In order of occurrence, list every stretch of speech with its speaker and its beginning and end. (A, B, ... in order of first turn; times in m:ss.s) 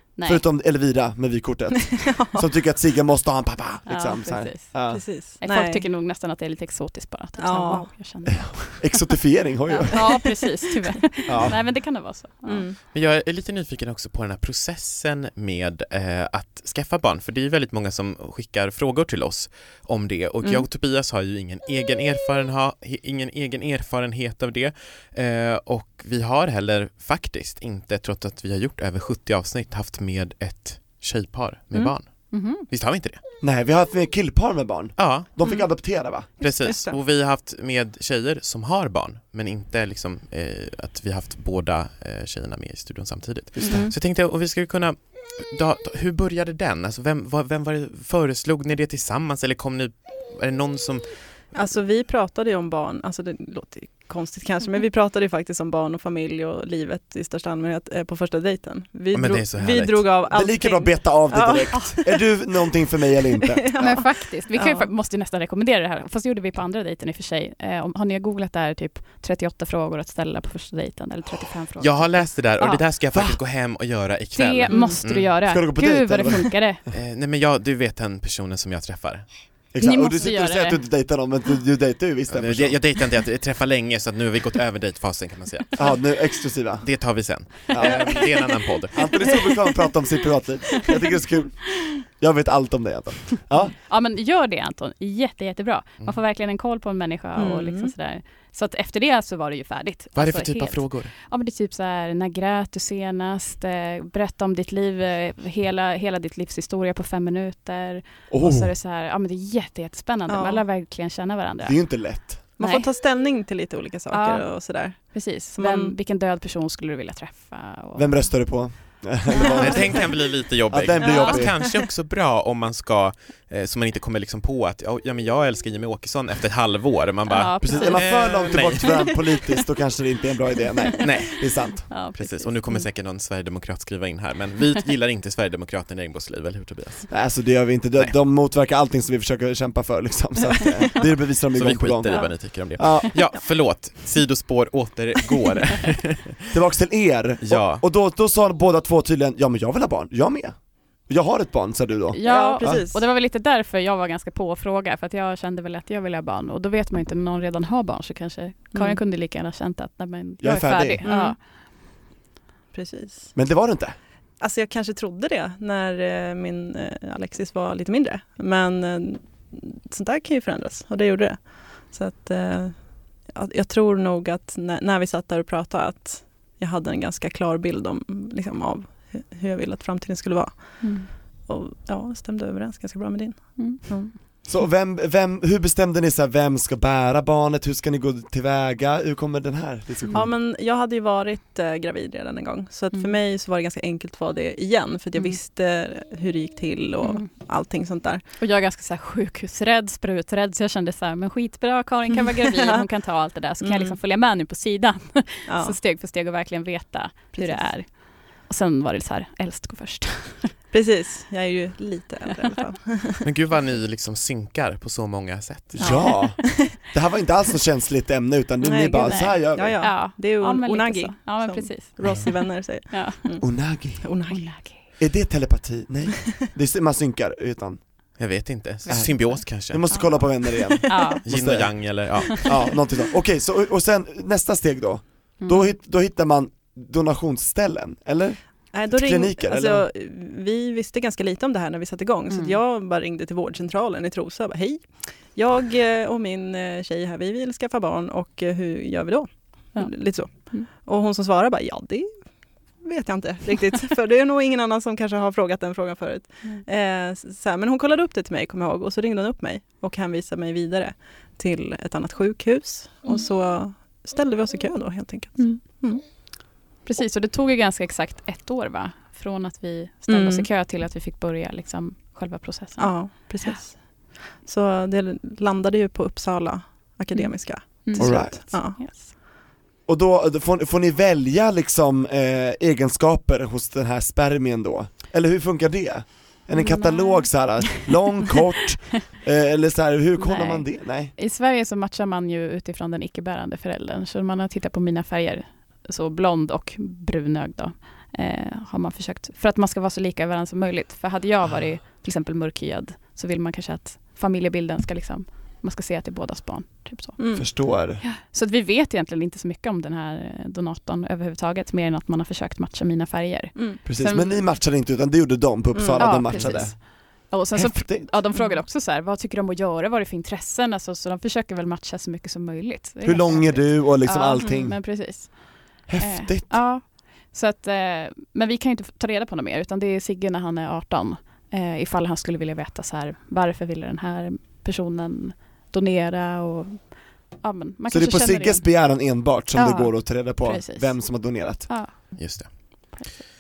0:00.2-0:00.4 A
0:00.2-0:05.0 B
0:01.9-0:02.4 C
0:03.9-0:04.8 A
0:04.9-0:05.8 C
0:05.4-0:09.0 A
0:07.4-0:07.9 C
0:08.3-0:10.2 B
0:09.7-0:12.6 A
0:09.9-0:11.0 C
0:11.3-0:11.6 B
0:12.4-0:12.8 C
0:12.9-0:33.2 D
0:32.3-0:32.6 A
0:33.4-0:36.3 B
0:35.0-0:35.3 D
0:36.4-0:37.0 C
0:36.4-0:51.0 D
0:43.6-0:43.9 B
0:43.6-0:43.9 C
0:51.5-1:02.2 C
0:59.1-1:00.1 D
1:00.3-1:03.9 B
1:03.5-1:04.9 C
1:03.8-1:12.8 A
1:11.8-1:15.3 D
1:13.1-1:13.4 B
1:14.3-1:16.8 A
1:14.7-1:15.0 C
1:15.4-1:16.6 B
1:16.9-1:19.3 D
1:19.7-1:22.9 B
1:19.8-1:20.8 A
1:22.3-1:25.8 D
1:25.8-1:28.4 B
1:26.8-1:29.0 D
1:28.9-1:33.7 B
1:33.9-1:51.8 A
1:37.4-1:37.9 C
1:40.2-1:41.1 D
1:48.3-1:48.7 B
1:50.3-1:50.6 C
1:51.6-1:52.4 B
1:52.6-1:55.9 C
1:52.6-1:52.9 A
1:54.1-1:58.3 A
1:57.9-2:01.6 B
1:59.6-2:09.2 D
2:01.0-2:01.7 C
2:07.3-2:08.5 A
2:07.6-2:11.9 B
2:11.0-2:17.1 D
2:11.9-2:12.8 A
2:17.1-2:23.2 B
2:21.5-2:26.5 D
2:26.5-2:32.8 B
2:27.4-2:27.8 D
2:32.1-2:41.4 A
2:32.2-2:33.0 C
2:38.7-2:39.0 C
2:40.4-2:41.0 B
2:41.0-2:41.4 C
2:42.7-2:43.3 C
2:43.3-2:43.9 B
2:44.4-3:04.1 C
3:00.8-3:01.1 A
3:03.6-3:04.0 A
3:04.4-3:10.3 B
3:10.1-3:18.2 C
3:17.0-3:17.3 A
3:18.4-3:30.5 A
3:22.1-3:22.8 C
3:23.6-3:24.0 C
3:25.5-3:25.8 C
3:27.3-3:27.7 C
3:30.7-3:33.2 C
3:33.2-3:36.1 D
3:35.7-3:40.0 B
3:35.8-3:36.8 C
3:38.6-3:43.5 C
3:39.0-3:43.3 A
3:43.4-3:44.2 B
3:44.0-3:44.5 C
3:44.3-3:44.8 A
3:45.0-3:47.8 B
3:48.2-3:50.1 D
3:48.9-3:51.2 A
3:48.9-3:59.9 B
3:51.2-3:52.6 D
3:55.4-3:55.7 A
3:58.7-4:26.0 C
4:02.3-4:02.6 A
4:09.7-4:10.7 A
4:25.4-4:25.7 A
4:26.8-4:33.6 A
4:30.1-4:30.5 C
4:32.8-4:38.8 C
4:37.1-4:39.1 A
4:38.0-4:38.7 B
4:39.9-4:51.1 B
4:46.5-4:47.8 A
4:50.2-5:14.4 A
5:07.2-5:07.5 C
5:07.3-5:08.0 B
5:13.8-5:18.1 B
5:15.7-5:16.2 C
5:16.0-5:39.0 A
5:18.3-5:18.6 C
5:23.0-5:25.1 B
5:24.4-5:24.6 C
5:25.9-5:26.6 B
5:37.9-5:41.8 B
5:39.5-5:43.2 A
5:42.1-5:42.9 D